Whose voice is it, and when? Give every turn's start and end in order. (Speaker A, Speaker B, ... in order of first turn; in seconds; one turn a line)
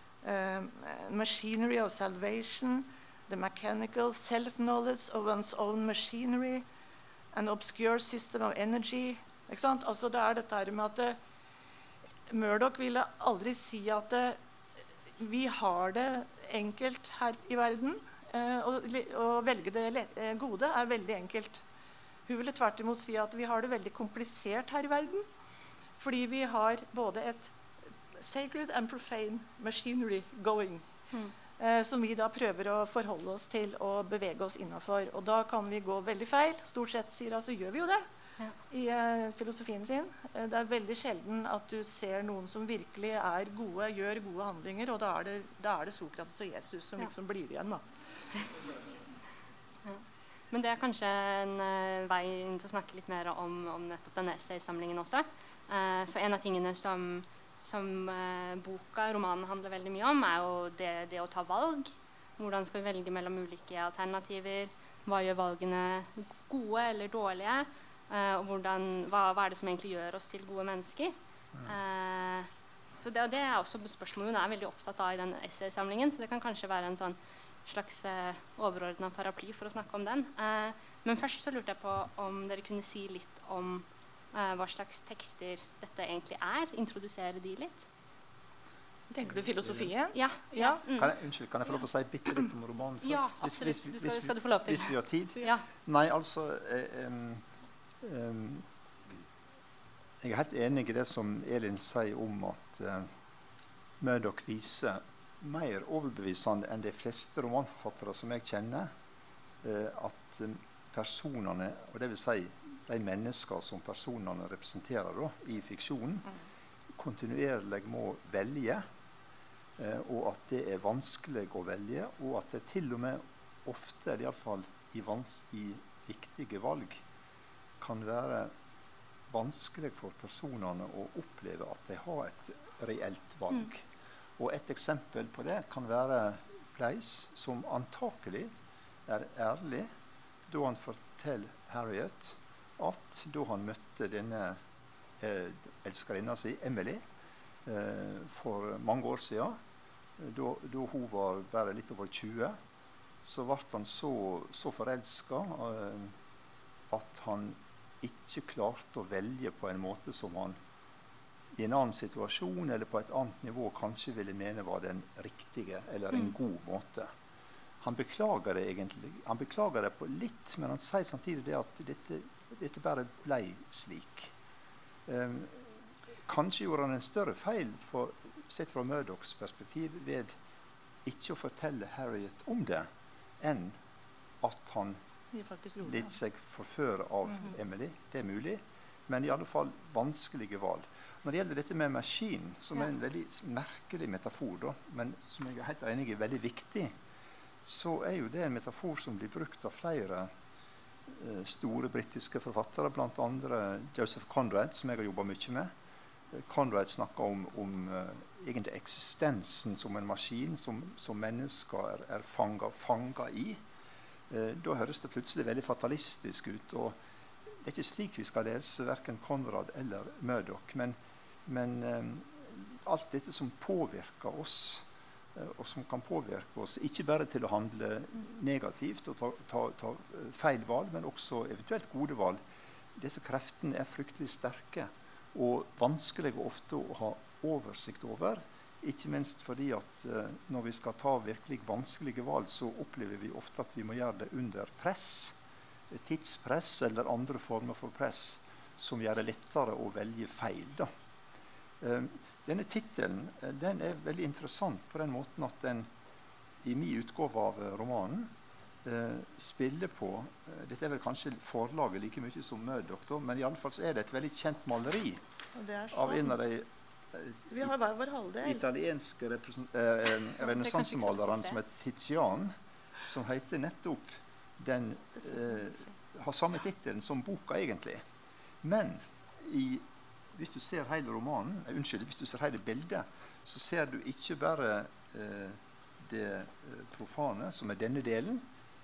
Speaker A: 0.2-6.7
Speaker A: 7.3-11.2
Speaker A: 12.3-14.4
Speaker A: 15.2-21.6
Speaker A: 22.3-25.2
Speaker A: 26.0-27.5
Speaker A: 28.1-30.9
Speaker A: 31.6-38.0
Speaker A: 38.7-47.8
Speaker B: 49.9-72.5
Speaker B: 73.0-87.9
Speaker A: 89.1-90.8
Speaker C: 89.6-89.9
Speaker B: 90.1-91.1
Speaker C: 91.0-97.4
Speaker B: 93.0-95.7
Speaker C: 98.0-98.7
Speaker C: 100.2-103.1
Speaker C: 104.0-108.9
Speaker C: 109.6-116.3
Speaker C: 116.9-118.8
Speaker C: 119.8-127.0
Speaker C: 127.8-128.5
Speaker C: 129.3-133.9
Speaker C: 134.4-138.5
Speaker C: 139.1-139.9
Speaker C: 140.5-144.6
Speaker C: 145.2-147.0
Speaker C: 147.7-149.6
Speaker C: 150.2-152.6
Speaker C: 153.2-156.2
Speaker C: 156.9-160.6
Speaker C: 161.6-167.1
Speaker C: 167.8-174.3
Speaker C: 175.1-175.8
Speaker C: 176.3-180.3
Speaker C: 181.1-182.9
Speaker C: 183.4-183.8
Speaker C: 184.4-185.0
Speaker A: 185.3-186.1
Speaker C: 185.8-196.9
Speaker C: 197.6-200.3
Speaker C: 201.1-205.7
Speaker C: 206.3-213.6
Speaker C: 214.3-217.0
Speaker C: 217.6-232.4
Speaker C: 232.9-245.4
Speaker C: 245.9-250.9
Speaker C: 251.8-255.9
Speaker C: 256.6-258.3
Speaker C: 258.8-265.2
Speaker A: 265.6-266.4
Speaker C: 265.9-267.7
Speaker A: 267.5-268.6
Speaker C: 268.4-278.0
Speaker B: 270.5-271.6
Speaker C: 278.6-288.4